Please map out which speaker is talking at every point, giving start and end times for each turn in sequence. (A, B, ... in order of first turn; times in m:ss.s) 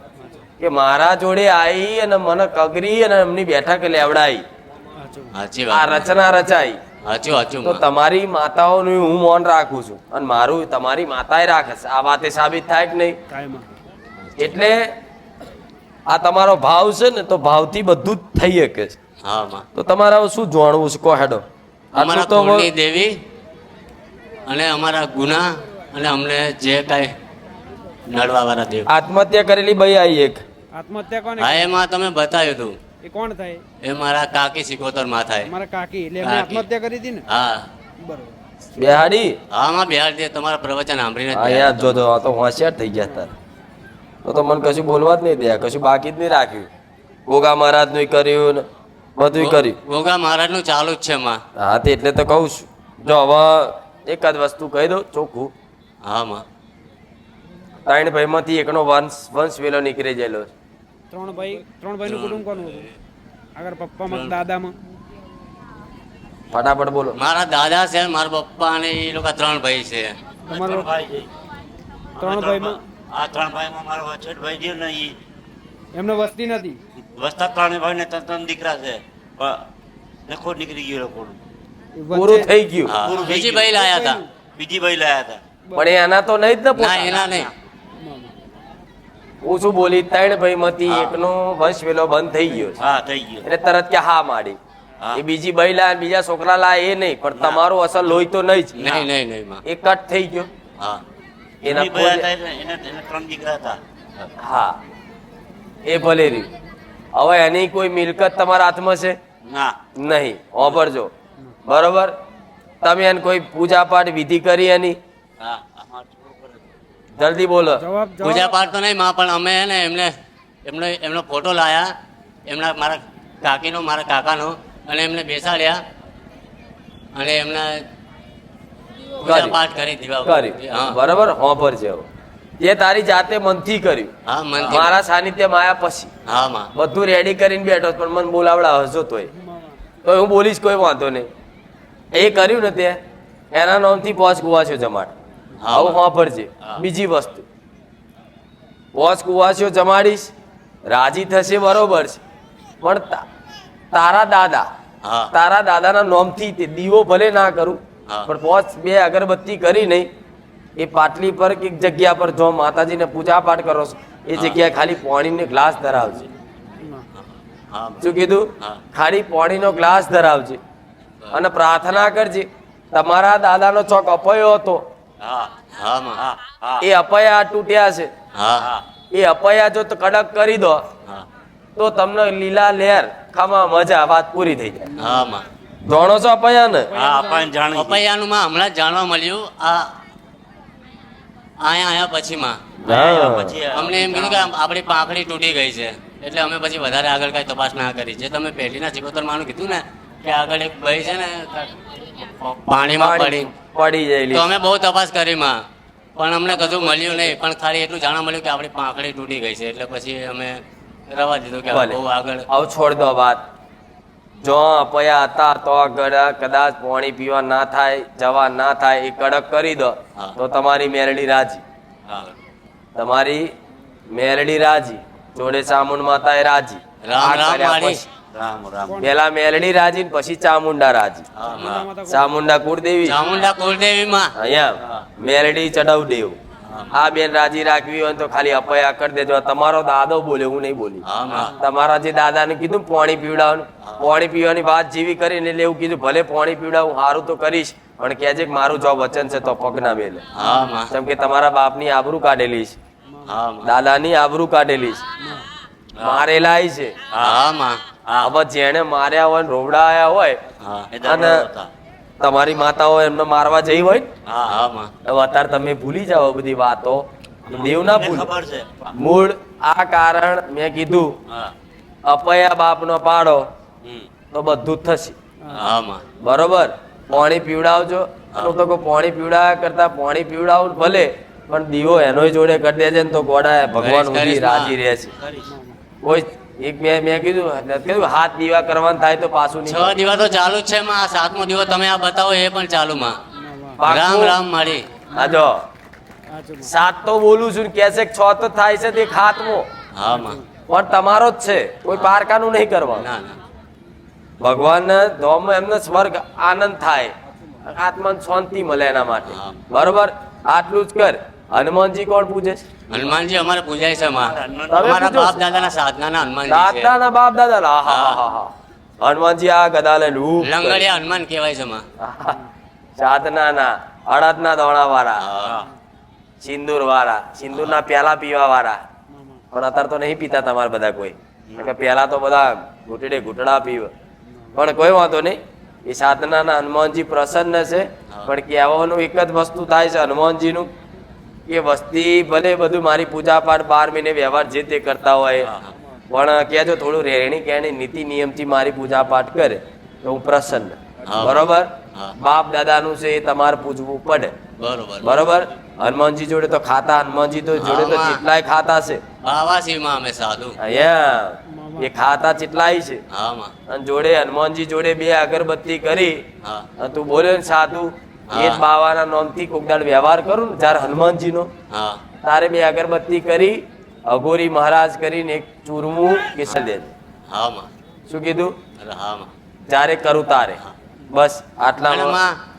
0:00.2-0:00.5 A
0:00.6-0:04.4 B
0:05.0-0:05.4 A
0:05.3-0:06.1 C
0:05.7-0:06.8 B
0:07.0-0:07.8 C
0:07.6-0:13.2 B
0:13.3-0:13.7 A
0:14.4-0:14.9 B
0:16.1-0:19.0 B
0:19.2-0:19.6 C
0:19.7-0:22.7 B
0:22.0-0:23.2 C
0:24.4-0:27.1 C
0:28.1-0:28.9 C
0:28.9-0:30.4 B
0:30.7-0:31.7 A
0:31.4-0:32.8 C
0:33.0-0:33.6 A
0:33.8-0:35.5 C
0:35.4-0:37.2 A
0:36.2-0:36.6 C
0:37.3-0:37.7 C
0:38.0-0:38.4 A
0:38.8-0:39.4 B
0:39.5-0:42.0 C
0:41.3-0:43.3 B
0:44.2-0:46.7 B
0:47.3-0:48.6 B
0:49.2-0:49.8 B
0:49.3-0:51.4 C
0:51.6-0:55.5 B
0:56.0-0:56.4 C
0:57.9-1:00.5 B
1:01.1-1:02.9 A
1:02.0-1:02.8 C
1:03.6-1:04.7 A
1:06.5-1:07.2 B
1:07.2-1:10.2 C
1:10.5-1:11.3 D
1:10.5-1:10.9 A
1:12.2-1:15.1 D
1:12.2-1:12.8 A
1:15.9-1:16.8 A
1:17.0-1:19.6 D
1:20.3-1:21.4 D
1:22.0-1:22.5 A
1:22.1-1:22.9 B
1:22.8-1:24.2 C
1:23.0-1:23.7 D
1:23.7-1:24.2 A
1:24.5-1:25.4 D
1:25.8-1:27.2 B
1:26.8-1:27.5 C
1:27.1-1:27.5 D
1:28.0-1:28.3 A
1:29.4-1:32.8 B
1:32.8-1:33.4 D
1:33.4-1:34.6 B
1:35.1-1:38.9 B
1:37.4-1:37.6 D
1:38.8-1:39.6 C
1:39.6-1:40.5 B
1:41.6-1:42.2 B
1:41.6-1:44.3 D
1:44.4-1:44.8 B
1:45.8-1:46.5 B
1:47.1-1:49.2 B
1:49.4-1:49.8 D
1:50.0-1:51.1 B
1:51.6-1:52.1 B
1:52.8-1:55.0 B
1:55.4-1:56.7 D
1:57.2-1:57.8 B
1:57.7-1:58.7 A
1:58.2-2:00.1 C
2:00.6-2:01.9 C
2:02.5-2:05.8 C
2:07.1-2:07.8 C
2:09.2-2:11.0 C
2:09.2-2:09.6 B
2:10.2-2:12.1 B
2:12.6-2:14.1 B
2:14.2-2:14.9 C
2:14.6-2:16.1 B
2:16.2-2:16.7 C
2:16.7-2:19.3 B
2:20.0-2:21.3 B
2:22.1-2:23.0 B
2:23.5-2:25.1 B
2:25.6-2:26.0 C
2:25.7-2:27.4 B
2:28.9-2:30.3 B
2:30.9-2:32.2 B
2:32.8-2:33.2 B
2:33.9-2:34.7 B
2:35.0-2:35.3 C
2:35.3-2:40.1 B
2:40.8-2:46.2 B
2:47.7-2:48.0 C
2:48.0-2:50.6 B
2:51.3-2:54.8 B
2:55.2-2:55.6 D
2:55.8-2:56.2 C
2:56.2-2:56.8 D
2:56.8-2:58.1 B
2:58.3-2:58.7 C
2:59.1-3:00.8 B
3:01.8-3:04.9 B
3:05.0-3:05.4 C
3:05.0-3:05.3 A
3:05.8-3:06.9 B
3:06.9-3:07.6 A
3:06.9-3:08.0 D
3:07.7-3:09.9 C
3:11.6-3:12.6 C
3:12.8-3:13.6 B
3:12.9-3:14.5 D
3:13.7-3:23.5 C
3:22.9-3:24.5 B
3:24.3-3:25.6 C
3:26.2-3:32.5 C
3:26.6-3:27.3 D
3:31.7-3:32.0 B
3:32.5-3:33.4 B
3:34.4-3:41.6 B
3:42.1-3:42.3 D
3:43.0-3:43.5 B
3:44.1-3:48.0 B
3:47.0-3:48.0 C
3:48.3-3:49.1 D
3:49.0-3:51.3 B
3:51.4-3:51.8 D
3:51.5-3:51.8 C
3:51.5-3:52.3 A
3:52.1-3:53.2 B
3:53.0-3:54.3 C
3:54.4-3:56.4 B
3:56.9-4:01.0 B
4:01.0-4:01.5 C
4:01.4-4:01.6 A
4:01.6-4:10.2 B
4:10.3-4:10.9 C
4:10.4-4:10.8 A
4:10.9-4:12.8 B
4:13.1-4:13.4 A
4:13.2-4:13.7 C
4:13.6-4:15.0 B
4:15.2-4:15.5 A
4:16.0-4:16.2 D
4:16.0-4:16.9 B
4:17.1-4:17.4 D
4:17.2-4:17.8 C
4:18.0-4:18.3 D
4:18.2-4:20.4 B
4:20.6-4:20.9 C
4:20.9-4:21.7 D
4:21.0-4:21.5 B
4:22.2-4:24.1 B
4:24.2-4:24.6 D
4:24.5-4:24.9 C
4:25.0-4:28.3 B
4:27.5-4:28.9 D
4:29.0-4:31.1 B
4:32.0-4:33.5 B
4:34.3-4:35.2 B
4:35.6-4:36.0 C
4:36.2-4:45.1 B
4:43.8-4:44.7 C
4:45.2-4:45.4 D
4:45.5-4:45.8 A
4:46.0-4:50.0 B
4:49.7-4:53.2 C
4:53.4-4:53.8 A
4:53.8-4:54.4 B
4:53.8-4:54.9 C
4:55.1-4:55.4 A
4:55.1-4:55.6 B
4:56.3-4:56.7 A
4:56.6-4:59.7 B
4:59.9-5:00.4 C
5:00.1-5:00.4 A
5:00.7-5:03.1 B
5:02.9-5:03.4 C
5:04.4-5:07.1 B
5:07.6-5:12.6 B
5:09.3-5:09.6 C
5:12.9-5:16.9 C
5:14.2-5:15.2 D
5:14.7-5:15.4 B
5:16.5-5:20.9 B
5:17.9-5:18.2 C
5:20.4-5:21.8 C
5:22.0-5:22.4 B
5:23.0-5:25.2 B
5:25.2-5:25.6 C
5:26.4-5:28.8 B
5:29.1-5:29.4 A
5:29.5-5:33.9 B
5:34.5-5:40.7 B
5:41.5-5:45.5 B
5:46.1-5:54.3 B
5:51.0-5:51.4 C
5:54.6-5:55.2 C
5:55.0-5:59.0 B
5:57.6-5:58.2 C
5:59.2-6:00.6 C
6:00.6-6:03.0 B
6:01.5-6:01.9 A
6:03.1-6:03.5 C
6:03.7-6:06.2 B
6:06.8-6:11.5 B
6:08.3-6:08.6 C
6:11.7-6:12.0 C
6:12.2-6:16.9 B
6:17.3-6:17.7 C
6:18.1-6:18.5 B
6:18.8-6:19.3 C
6:19.7-6:20.6 B
6:21.1-6:22.2 B
6:21.9-6:22.4 C